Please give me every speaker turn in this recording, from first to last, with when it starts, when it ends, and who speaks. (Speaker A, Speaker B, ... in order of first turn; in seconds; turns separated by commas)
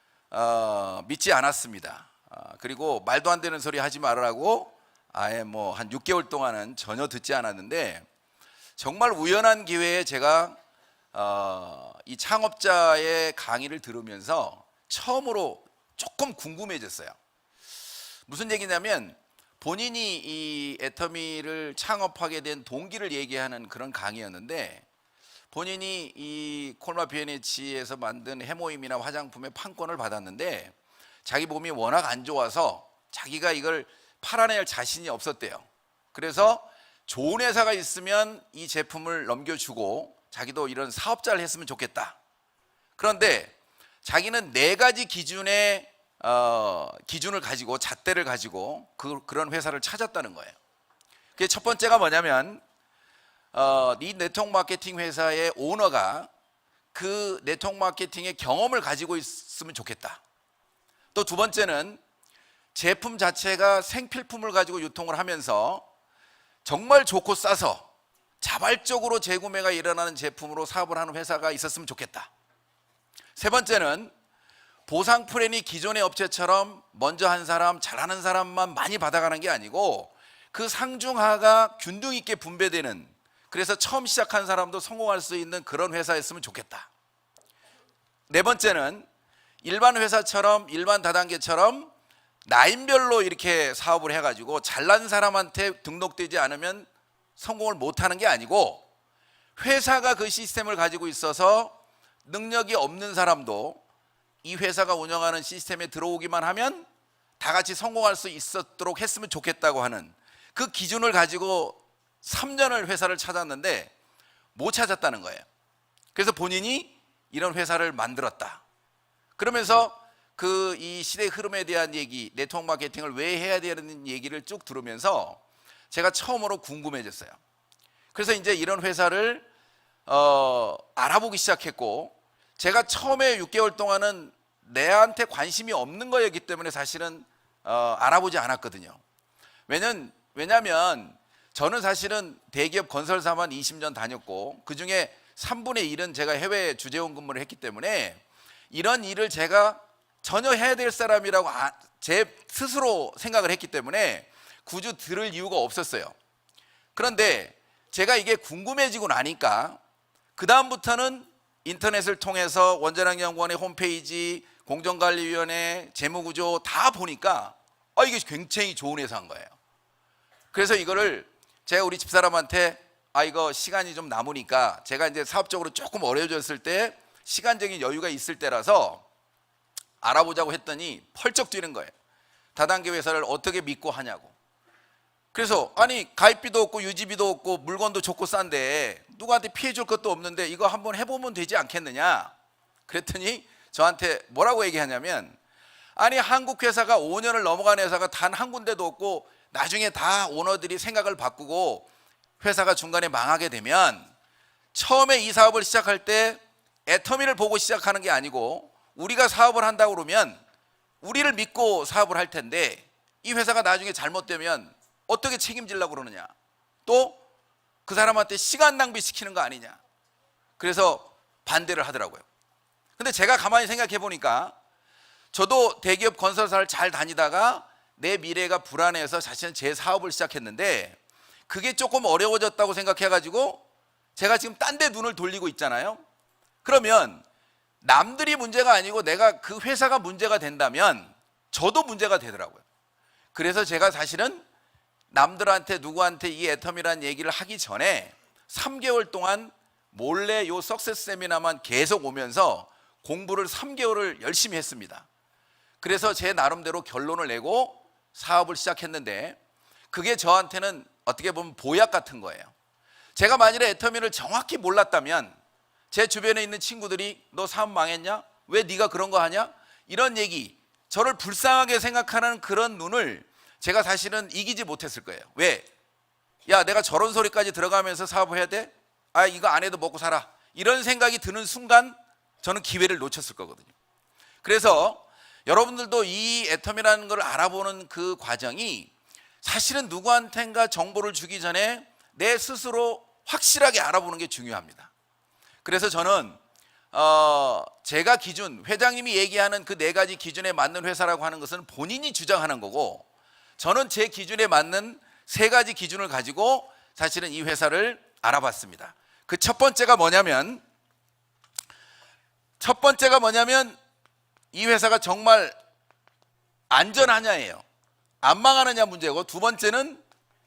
Speaker A: 0.3-8.1, Speaker A: 8.8-10.6, Speaker A: 11.1-17.2, Speaker A: 18.3-24.8, Speaker A: 25.5-30.7, Speaker A: 31.2-42.2, Speaker A: 43.0-50.6, Speaker A: 51.4-52.6, Speaker A: 53.5-56.3, Speaker A: 56.9-60.2, Speaker A: 61.1-62.0, Speaker A: 62.7-65.8, Speaker A: 66.6-67.9, Speaker A: 68.4-72.3, Speaker A: 73.4-74.1, Speaker A: 74.9-86.9, Speaker A: 88.3-89.1, Speaker A: 89.6-91.9, Speaker A: 92.5-98.8, Speaker A: 99.6-103.8, Speaker A: 104.4-106.9, Speaker A: 107.4-113.9, Speaker A: 114.5-115.5, Speaker A: 116.1-118.6, Speaker A: 119.4-125.4, Speaker A: 125.9-127.4, Speaker A: 128.1-129.4, Speaker A: 130.1-139.0, Speaker A: 139.7-156.2, Speaker A: 156.9-159.8, Speaker A: 160.4-169.5, Speaker A: 170.5-179.0, Speaker A: 180.0-181.9, Speaker A: 182.6-184.3, Speaker A: 185.3-192.3, Speaker A: 192.9-195.4, Speaker A: 196.0-201.9, Speaker A: 202.4-204.1, Speaker A: 204.7-210.4, Speaker A: 211.0-216.3, Speaker A: 216.9-217.2, Speaker A: 217.9-219.8, Speaker A: 220.6-222.2, Speaker A: 223.0-224.5, Speaker A: 225.3-233.6, Speaker A: 234.2-236.0, Speaker A: 236.6-237.2, Speaker A: 237.8-242.6, Speaker A: 243.3-244.4, Speaker A: 245.1-255.1, Speaker A: 255.8-259.4, Speaker A: 259.9-262.5, Speaker A: 263.2-265.4, Speaker A: 265.9-275.7, Speaker A: 276.5-283.7, Speaker A: 284.4-288.9, Speaker A: 289.4-294.9, Speaker A: 295.6-296.4, Speaker A: 296.9-303.1, Speaker A: 303.6-310.6, Speaker A: 312.6-313.8, Speaker A: 314.5-315.6, Speaker A: 316.7-317.6, Speaker A: 318.2-320.0